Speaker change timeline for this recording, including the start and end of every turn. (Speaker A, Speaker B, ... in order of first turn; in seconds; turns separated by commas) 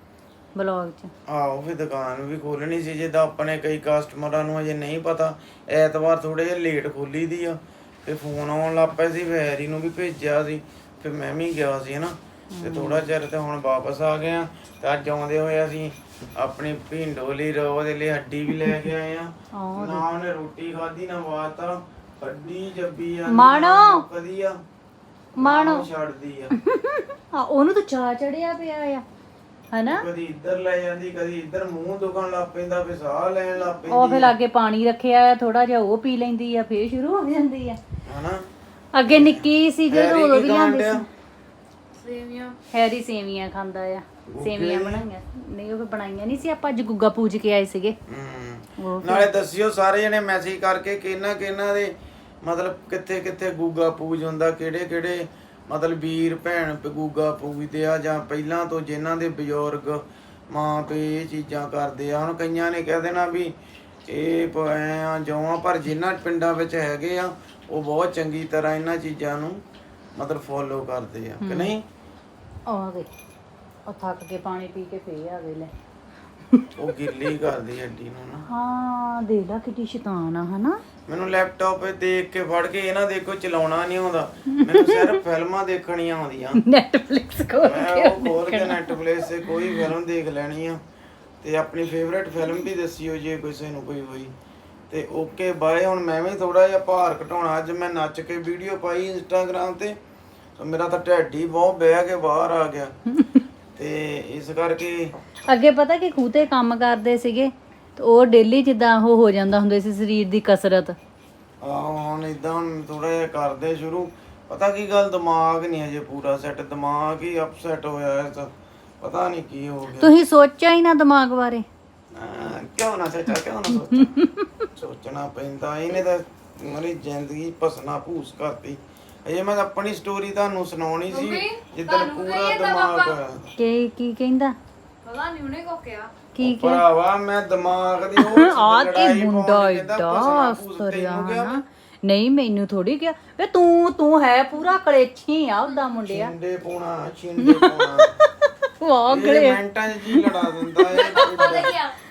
Speaker A: 0.6-1.1, Speaker B: 1.3-24.6, Speaker A: 12.5-13.1, Speaker A: 19.5-20.1, Speaker A: 23.3-24.1, Speaker A: 25.4-25.9, Speaker B: 25.4-26.6, Speaker A: 26.6-29.0, Speaker A: 29.7-30.1, Speaker B: 29.9-34.3, Speaker A: 33.9-37.8, Speaker B: 38.1-38.5, Speaker A: 39.0-41.1, Speaker B: 39.0-41.0, Speaker C: 42.0-42.6, Speaker A: 42.7-48.0, Speaker B: 44.3-45.0, Speaker B: 48.1-63.5, Speaker A: 48.8-49.3, Speaker B: 64.1-69.6, Speaker B: 70.2-71.8, Speaker A: 71.4-71.7, Speaker A: 72.7-73.1, Speaker A: 73.9-75.7, Speaker B: 76.8-78.5, Speaker A: 78.5-80.8, Speaker B: 81.1-86.6, Speaker A: 84.5-85.2, Speaker A: 86.6-89.9, Speaker B: 87.6-90.8, Speaker B: 91.4-94.3, Speaker B: 94.9-100.0, Speaker B: 100.6-102.9, Speaker A: 103.1-103.4, Speaker B: 103.8-105.1, Speaker A: 105.5-111.0, Speaker B: 111.6-120.1, Speaker A: 120.0-121.7, Speaker B: 122.1-124.2, Speaker A: 123.9-124.7, Speaker B: 124.7-133.5, Speaker C: 131.1-133.2, Speaker A: 133.6-134.6, Speaker C: 135.1-136.1, Speaker A: 136.3-136.8, Speaker B: 136.4-141.6, Speaker A: 138.2-146.3, Speaker B: 146.1-148.1, Speaker A: 147.4-148.3, Speaker A: 148.8-150.3, Speaker B: 149.1-151.9, Speaker A: 150.8-151.7